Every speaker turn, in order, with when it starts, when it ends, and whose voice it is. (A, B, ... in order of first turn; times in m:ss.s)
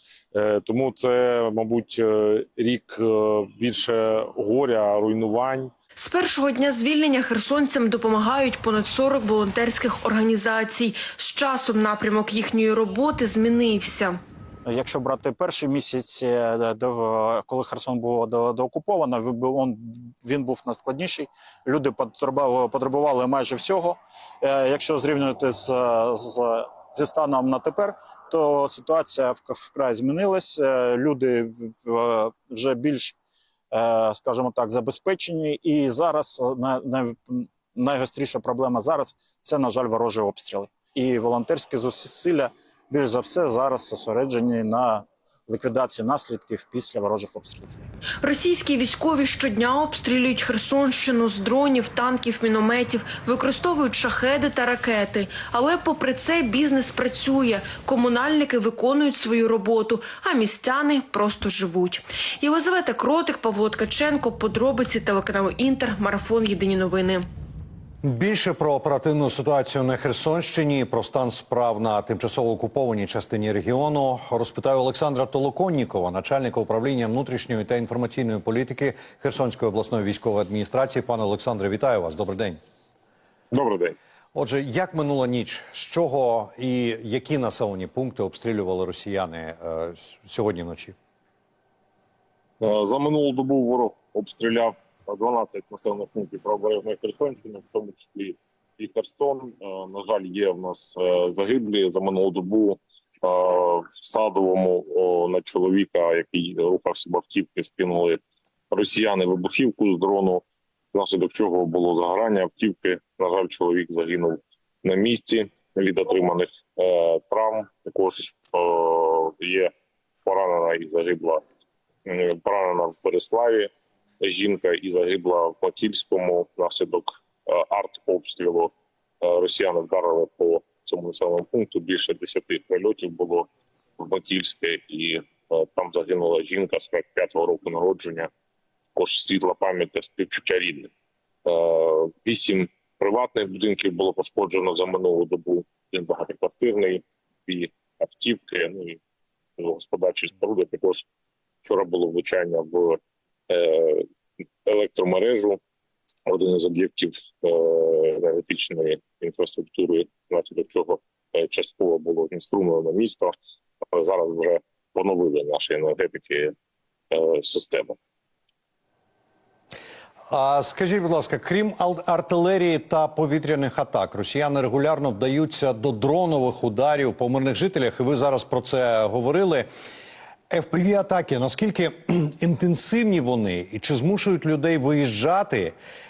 0:00.4-0:05.7 A
0:06.0-0:14.2 B
0:14.6-0:33.2 C
0:33.7-0:47.8 C
0:48.2-1:07.2 B
1:08.0-1:22.6 D
1:23.5-1:23.9 A
1:24.3-1:30.9 D
1:32.6-1:48.2 A
1:48.7-1:59.7 A
2:00.2-2:01.4 A
2:02.0-2:18.3 A
2:19.0-2:20.9 A
2:21.4-2:29.0 A
2:29.6-2:31.0 A
2:31.6-2:33.0 A
2:33.5-2:34.0 A
2:34.6-2:35.6 A
2:36.2-2:43.3 A
2:43.9-2:46.5 A
2:47.1-2:48.0 A
2:50.3-2:59.7 D
3:00.5-3:05.7 D